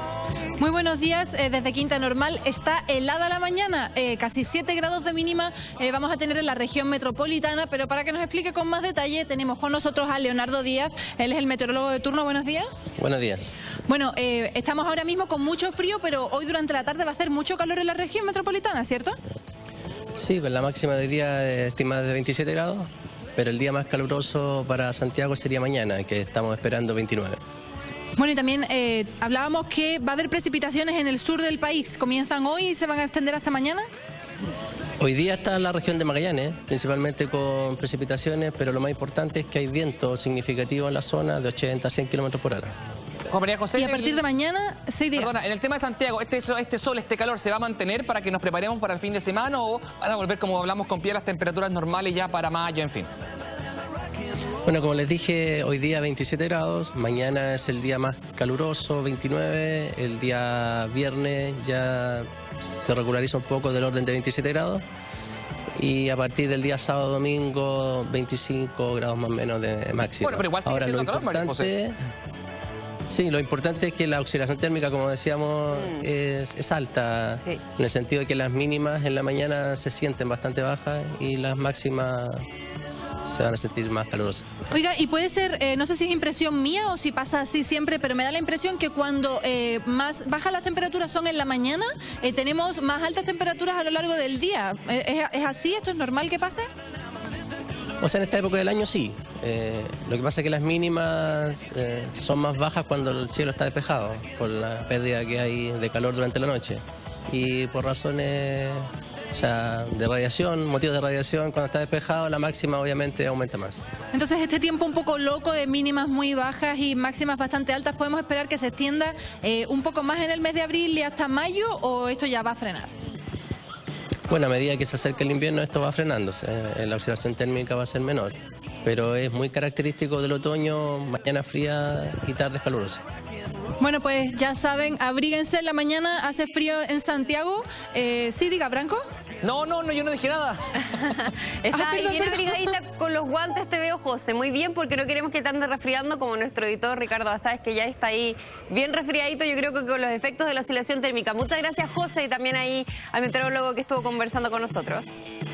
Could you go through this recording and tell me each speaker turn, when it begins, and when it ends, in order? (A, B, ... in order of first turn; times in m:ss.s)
0:00.6-0:12.7 A
0:13.0-0:13.5 B
0:13.9-0:19.2 A
0:20.2-0:27.4 B
0:28.2-0:33.8 A
0:35.0-0:42.7 B
0:43.3-0:44.2 C
0:43.7-0:45.3 A
0:45.1-0:53.1 C
0:54.6-1:04.8 B
1:05.8-1:12.0 B
1:10.2-1:11.7 C
1:13.1-1:22.4 B
1:23.2-1:24.5 B
1:24.7-1:36.6 A
1:38.0-1:53.8 B
1:54.1-2:02.9 A
2:04.3-2:13.0 B
2:13.8-2:19.0 A
2:19.4-2:20.9 C
2:20.9-2:35.1 D
2:21.7-2:22.7 A